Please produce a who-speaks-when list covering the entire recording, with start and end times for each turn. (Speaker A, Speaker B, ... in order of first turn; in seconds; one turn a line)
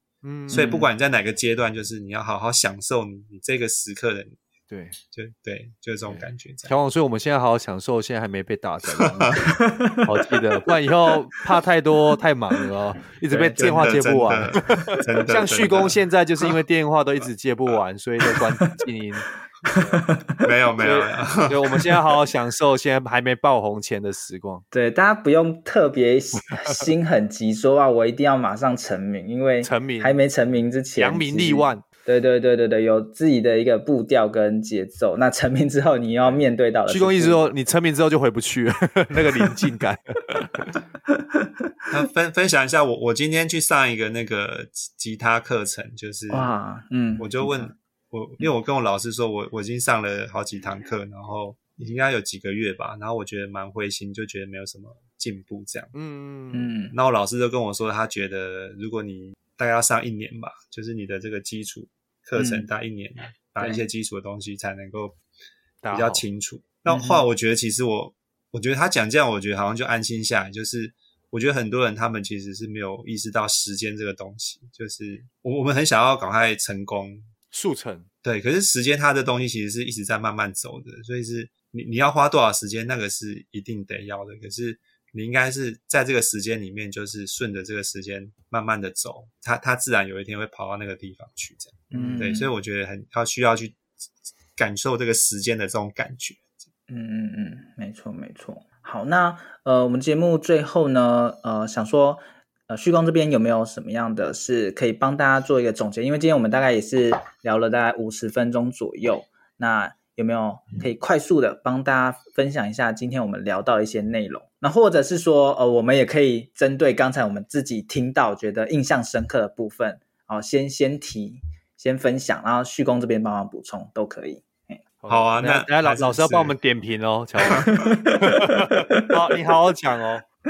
Speaker A: 0.2-0.7
Speaker B: 0.5-4.4
Speaker C: 0.5-0.9
Speaker A: 4.7-5.0
Speaker B: 5.1-6.7
Speaker A: 6.0-9.4
Speaker B: 9.0-9.4
Speaker C: 9.6-10.0
Speaker A: 10.0-20.0
Speaker C: 13.3-13.6
Speaker B: 13.4-16.0
Speaker C: 19.6-20.4
Speaker B: 20.4-21.9
Speaker A: 20.8-24.6
Speaker C: 24.7-37.5
Speaker A: 29.6-30.2
Speaker A: 30.9-31.8
Speaker A: 36.2-40.7
Speaker C: 41.1-41.4
Speaker B: 41.9-46.5
Speaker C: 46.3-47.7
Speaker B: 47.2-55.9
Speaker A: 55.9-56.7
Speaker C: 56.5-56.9
Speaker B: 56.9-65.2
Speaker C: 62.4-62.7
Speaker A: 65.8-66.2
Speaker B: 65.9-77.3
Speaker C: 66.9-67.2
Speaker A: 77.5-78.1
Speaker B: 78.2-93.8
Speaker C: 91.9-92.5
Speaker A: 91.9-92.3
Speaker B: 94.5-96.4
Speaker C: 96.9-124.8
Speaker A: 125.0-130.2
Speaker B: 125.1-126.5
Speaker C: 127.7-129.1